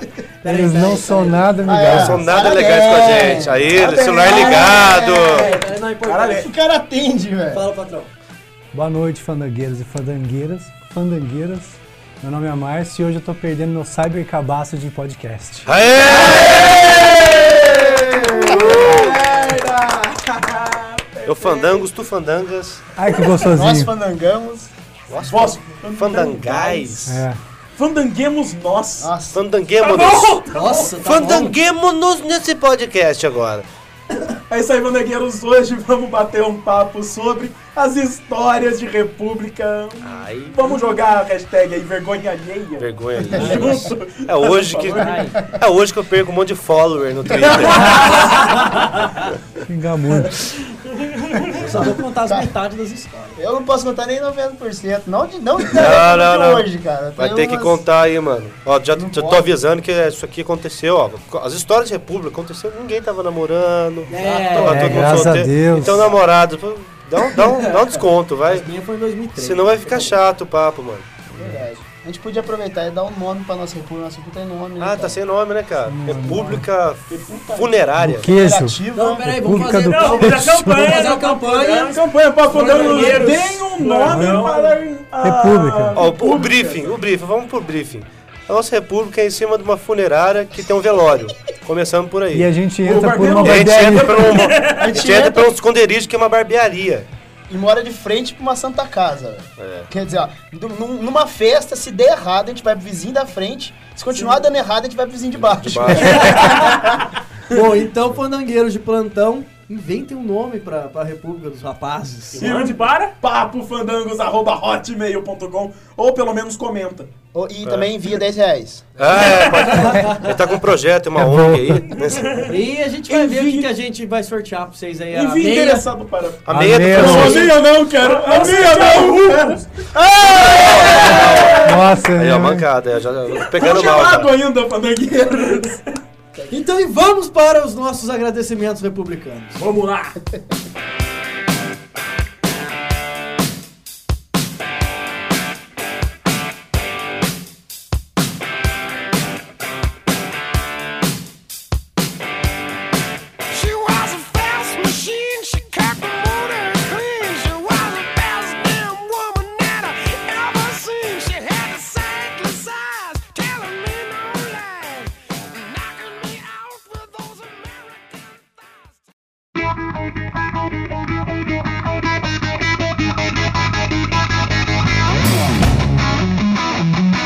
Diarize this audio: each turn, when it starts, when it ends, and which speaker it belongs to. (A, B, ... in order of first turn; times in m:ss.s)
0:00.4-0:02.4 A
0:00.4-0:02.2 B
0:01.6-0:05.5 C
0:01.8-0:05.5 D
0:03.0-0:03.7 A
0:03.7-0:06.5 E
0:04.2-0:06.5 A
0:06.4-0:07.6 C
0:07.5-0:08.1 A
0:08.7-0:15.7 B
0:15.6-0:17.4 D
0:16.1-0:17.0 A
0:16.1-0:21.8 E
0:16.5-0:19.4 C
0:21.2-0:22.8 D
0:23.0-0:23.9 B
0:23.5-0:24.7 C
0:25.1-0:27.2 D
0:25.2-0:27.1 E
0:27.0-0:27.4 B
0:27.8-0:29.1 E
0:29.0-0:29.4 C
0:29.3-0:33.6 D
0:29.8-0:30.9 F
0:30.5-0:31.6 A
0:34.5-0:45.0 E
0:40.0-0:40.6 D
0:42.8-0:48.4 D
0:43.3-0:43.9 C
0:43.3-0:43.7 A
0:44.9-0:45.6 C
0:44.9-0:45.4 A
0:47.7-0:48.2 E
0:49.6-0:50.4 B
0:50.9-0:51.6 F
0:51.6-0:51.9 D
0:51.6-0:53.4 A
0:51.7-0:52.5 C
0:53.4-0:57.8 C
0:55.7-1:08.7 D
0:59.0-0:59.6 C
1:04.1-1:06.2 A
1:04.1-1:04.4 F
1:04.6-1:06.0 B
1:08.4-1:10.2 A
1:09.4-1:11.1 D
1:11.3-1:11.7 B
1:11.4-1:15.2 C
1:14.8-1:18.3 D
1:15.8-1:16.6 B
1:17.1-1:17.7 E
1:18.0-1:20.9 B
1:18.2-1:19.4 C
1:18.9-1:22.0 A
1:19.7-1:24.8 F
1:21.9-1:27.0 E
1:22.6-1:23.2 A
1:24.1-1:24.5 B
1:25.2-1:26.0 B
1:26.0-1:32.5 D
1:32.3-1:34.5 B
1:32.8-1:34.4 E
1:33.4-1:37.1 D
1:34.4-1:35.0 F
1:34.8-1:35.5 C
1:37.5-1:47.0 C
1:39.6-1:39.9 D
1:45.3-1:46.6 D
1:46.0-1:46.7 A
1:47.5-1:52.5 A
1:52.4-1:53.2 F
1:52.4-1:57.1 E
1:57.3-1:58.9 C
1:57.6-1:57.9 D
1:59.0-2:02.4 D
1:59.1-1:59.9 F
1:59.8-2:00.3 A
2:01.2-2:01.8 B
2:02.2-2:02.5 F
2:02.3-2:05.9 A
2:03.1-2:03.7 E
2:05.1-2:11.8 E
2:06.4-2:07.5 D
2:06.5-2:07.4 B
2:07.5-2:09.4 F
2:10.2-2:14.3 D
2:10.3-2:10.7 C
2:11.6-2:12.7 B
2:13.6-2:15.8 E
2:16.3-2:16.6 C
2:16.5-2:19.6 A
2:19.6-2:20.2 F
2:33.5-2:49.0 G